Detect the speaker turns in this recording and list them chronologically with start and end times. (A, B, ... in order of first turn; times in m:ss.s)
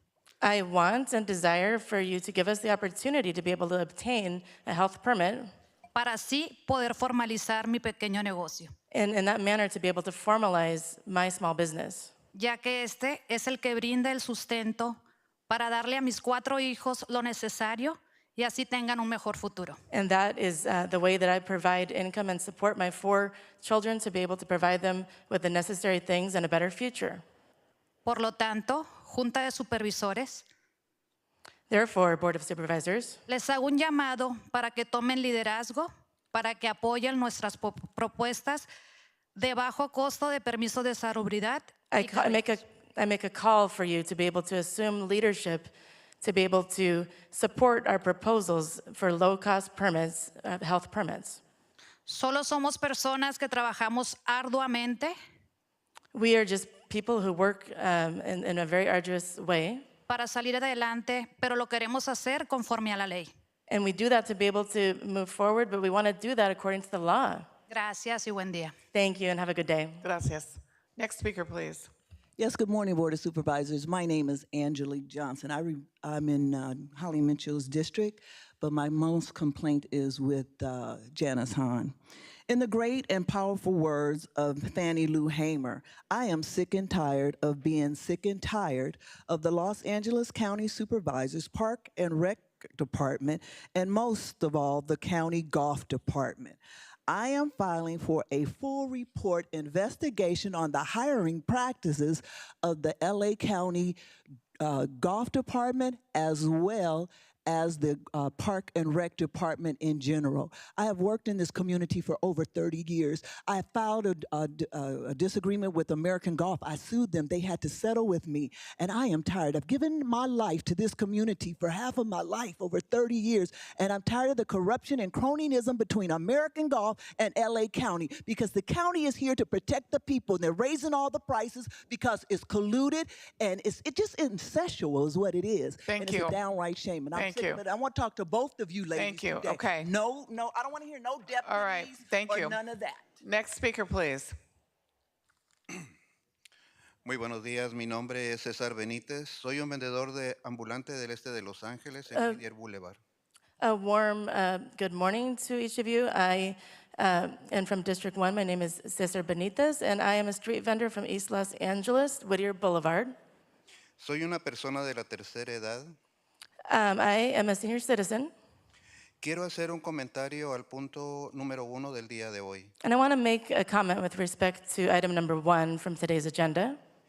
0:00.4-0:05.5 A
0:05.9-0:08.7 B
0:08.9-0:12.1 A
0:12.4-0:15.0 B
0:15.5-0:19.8 B
0:19.9-0:27.2 A
0:28.0-0:30.4 B
0:31.7-0:33.2 A
0:33.3-0:38.7 B
0:39.4-0:42.6 B
0:41.9-0:51.4 A
0:52.0-0:55.1 B
0:56.1-0:59.8 A
1:00.1-1:03.3 B
1:03.7-1:07.5 A
1:07.7-1:08.7 B
1:08.9-1:10.0 A
1:10.0-1:11.9 C
1:12.4-1:21.9 D
1:22.5-1:44.0 D
1:44.6-2:23.1 D
2:15.8-2:16.4 C
2:17.1-2:17.6 C
2:18.9-2:19.9 C
2:21.4-2:22.6 C
2:23.2-2:24.4 C
2:27.0-2:33.0 E
2:33.6-2:43.1 A
2:44.0-2:45.9 E
2:46.7-2:48.3 A
2:49.2-2:52.7 E
2:52.8-2:56.8 A